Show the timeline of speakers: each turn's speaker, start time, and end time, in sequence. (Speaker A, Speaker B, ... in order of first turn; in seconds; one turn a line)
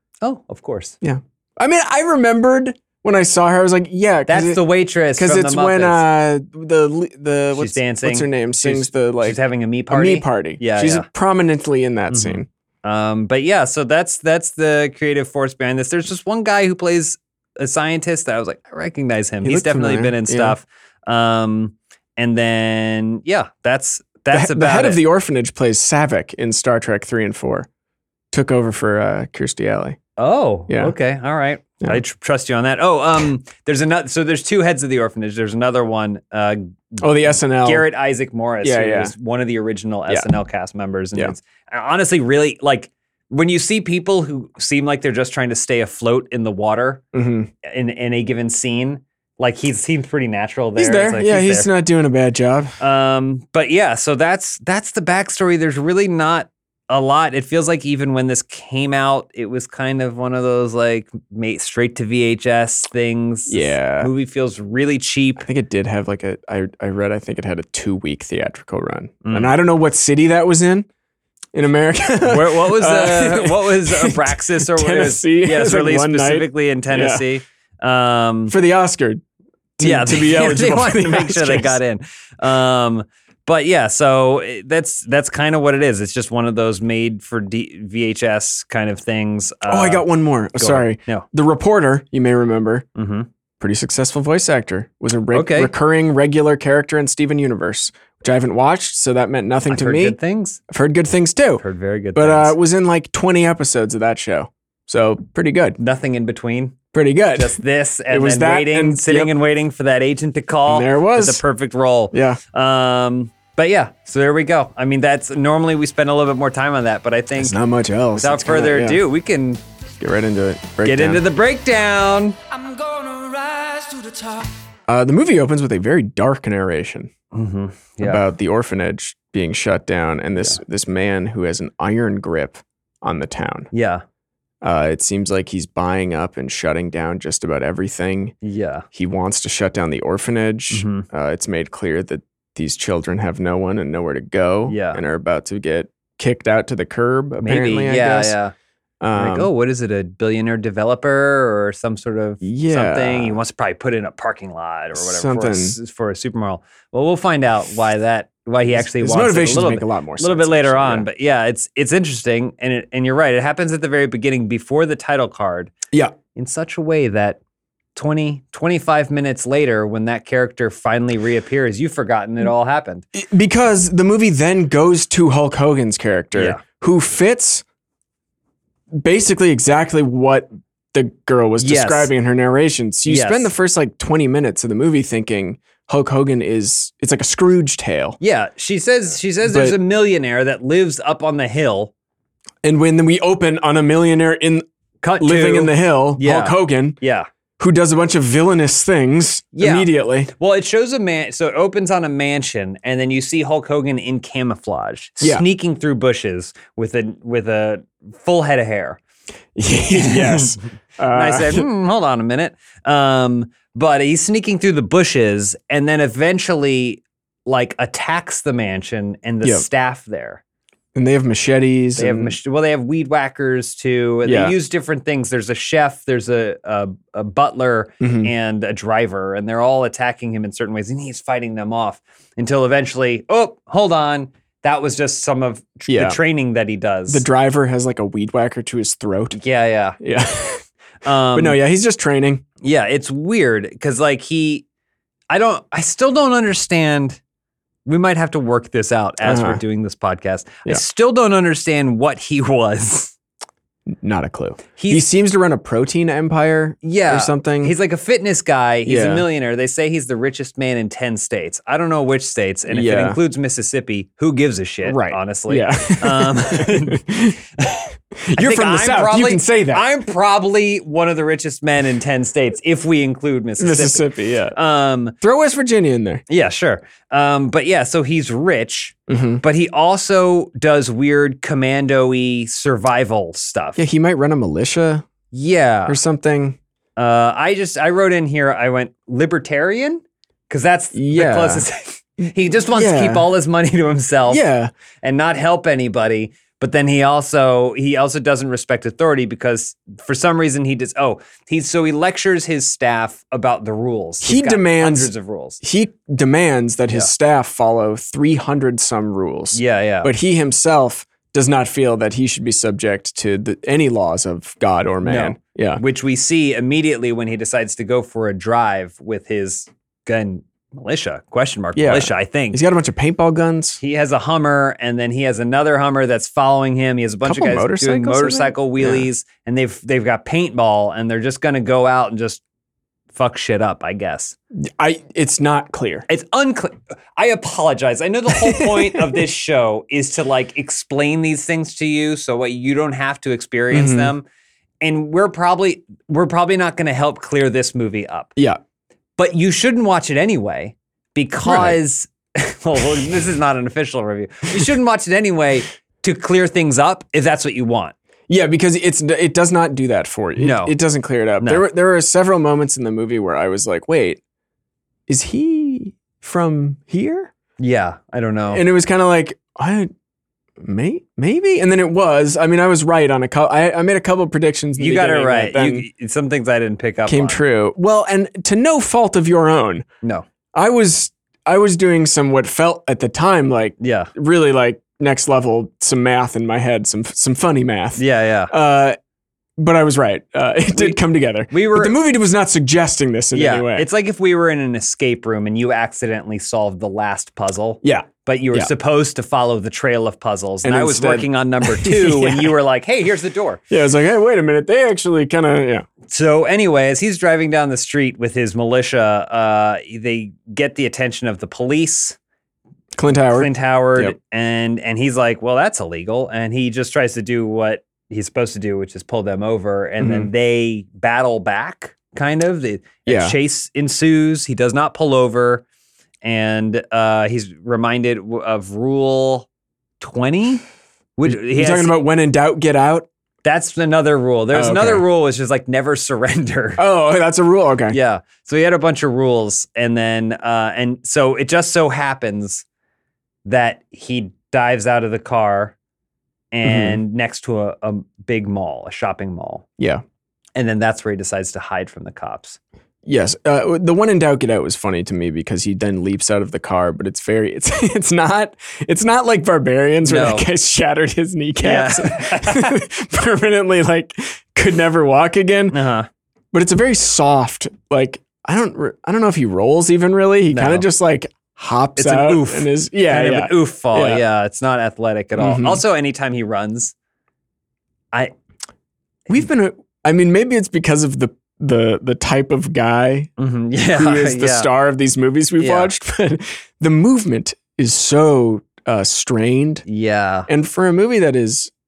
Speaker A: 0.2-0.9
Speaker B: 1.0-4.6
Speaker A: 4.3-6.0
Speaker B: 5.2-12.5
Speaker A: 7.5-11.1
Speaker A: 12.1-25.0
Speaker B: 19.4-20.6
Speaker B: 24.3-27.7
Speaker B: 28.3-30.0
Speaker A: 30.2-47.0
Speaker B: 30.7-30.9
Speaker B: 37.0-37.8
Speaker B: 38.6-39.1
Speaker B: 47.1-47.5
Speaker A: 47.6-51.7
Speaker B: 50.8-52.8
Speaker A: 52.8-65.5
Speaker B: 63.5-64.1
Speaker B: 65.4-70.9
Speaker A: 69.2-69.5
Speaker B: 71.5-77.2
Speaker A: 72.2-78.5
Speaker B: 78.5-79.2
Speaker B: 79.8-81.8
Speaker A: 79.8-91.2
Speaker B: 89.7-92.8
Speaker A: 93.0-93.3
Speaker B: 93.6-100.2
Speaker A: 95.3-95.7
Speaker A: 99.7-100.6
Speaker B: 100.7-101.6
Speaker A: 101.6-102.5
Speaker B: 102.1-105.8
Speaker A: 105.8-106.8
Speaker B: 106.9-109.3
Speaker A: 107.3-117.6
Speaker B: 110.7-111.4
Speaker B: 112.1-112.4
Speaker B: 117.4-119.0
Speaker A: 118.2-119.6
Speaker B: 120.0-121.2
Speaker A: 120.8-122.3
Speaker C: 122.5-124.6
Speaker B: 124.9-127.1
Speaker A: 127.3-128.2
Speaker B: 128.0-133.7
Speaker A: 133.7-134.0
Speaker B: 134.6-138.3
Speaker A: 138.4-138.8
Speaker B: 138.9-148.4
Speaker A: 140.7-141.1
Speaker A: 144.7-145.0
Speaker A: 147.4-148.5
Speaker B: 149.0-149.5
Speaker A: 149.1-165.7
Speaker B: 152.4-153.4
Speaker B: 154.9-155.8
Speaker B: 158.7-161.1
Speaker A: 166.3-167.4
Speaker A: 167.9-173.0
Speaker B: 173.1-177.6
Speaker A: 176.3-176.6
Speaker B: 178.9-188.2
Speaker A: 181.6-182.1
Speaker A: 183.1-183.5
Speaker A: 188.2-191.9
Speaker B: 189.4-189.8
Speaker B: 192.6-194.6
Speaker A: 195.0-197.3
Speaker B: 195.2-197.0
Speaker B: 197.6-200.3
Speaker A: 199.6-209.0
Speaker B: 209.6-211.7
Speaker A: 209.9-210.5
Speaker A: 211.1-220.4
Speaker B: 220.9-222.3
Speaker A: 221.9-237.2
Speaker B: 224.2-224.5
Speaker B: 228.0-228.3
Speaker B: 235.9-236.2
Speaker B: 237.1-239.4
Speaker A: 239.3-240.0
Speaker B: 240.0-240.6
Speaker A: 241.0-241.6
Speaker B: 241.3-242.4
Speaker A: 242.6-244.6
Speaker A: 245.3-247.2
Speaker A: 247.8-253.1
Speaker B: 249.2-249.6
Speaker B: 253.9-257.7
Speaker A: 254.8-255.1
Speaker A: 256.8-267.0
Speaker B: 258.9-259.3
Speaker B: 262.7-263.2
Speaker B: 264.9-267.4
Speaker B: 268.2-269.9
Speaker A: 268.4-275.1
Speaker B: 273.6-274.6
Speaker B: 275.2-276.2
Speaker A: 276.3-283.8
Speaker B: 279.1-279.4
Speaker B: 283.8-285.1
Speaker A: 285.3-286.0
Speaker B: 285.9-286.6
Speaker A: 287.0-294.4
Speaker B: 290.9-291.6
Speaker B: 292.7-293.3
Speaker B: 294.3-294.7
Speaker A: 295.0-305.6
Speaker B: 304.2-315.8
Speaker A: 309.5-310.1
Speaker A: 315.0-322.6
Speaker B: 321.8-323.8
Speaker A: 323.8-332.4
Speaker B: 327.2-329.1
Speaker A: 333.1-334.3
Speaker B: 334.7-336.1
Speaker A: 336.1-344.2
Speaker B: 338.3-339.1
Speaker B: 343.7-344.1
Speaker A: 344.8-348.3
Speaker A: 349.2-357.9
Speaker B: 351.4-351.8
Speaker B: 358.3-364.2
Speaker A: 360.4-360.7
Speaker A: 361.4-361.6
Speaker B: 365.1-367.3
Speaker A: 367.6-368.6
Speaker B: 368.5-369.9
Speaker B: 370.6-375.9
Speaker A: 374.8-377.4
Speaker B: 377.1-379.8
Speaker B: 380.5-389.0
Speaker A: 383.8-384.1
Speaker A: 388.0-388.5
Speaker B: 389.6-393.9
Speaker A: 390.7-391.9
Speaker A: 393.3-403.6
Speaker B: 397.8-398.7
Speaker B: 400.6-402.6
Speaker B: 403.7-405.9
Speaker A: 406.1-412.2
Speaker B: 412.9-414.1
Speaker A: 413.3-425.6
Speaker B: 420.0-420.3
Speaker B: 423.1-423.4
Speaker A: 426.2-429.5
Speaker A: 430.0-430.6
Speaker A: 431.2-431.9
Speaker B: 431.2-433.1
Speaker A: 433.4-436.8
Speaker B: 434.5-435.0
Speaker B: 436.8-437.9
Speaker A: 437.9-442.6
Speaker A: 443.4-445.7
Speaker A: 446.5-449.6
Speaker B: 446.6-447.0
Speaker A: 450.6-452.6
Speaker B: 453.0-465.8
Speaker A: 460.0-460.5
Speaker A: 461.6-462.8
Speaker A: 465.7-466.1
Speaker B: 466.5-474.2
Speaker A: 470.5-470.9
Speaker A: 472.0-476.9
Speaker B: 475.4-475.8
Speaker B: 479.3-483.3
Speaker A: 483.4-484.7
Speaker B: 483.9-489.8
Speaker A: 485.6-485.9
Speaker A: 489.9-490.5
Speaker B: 490.5-491.7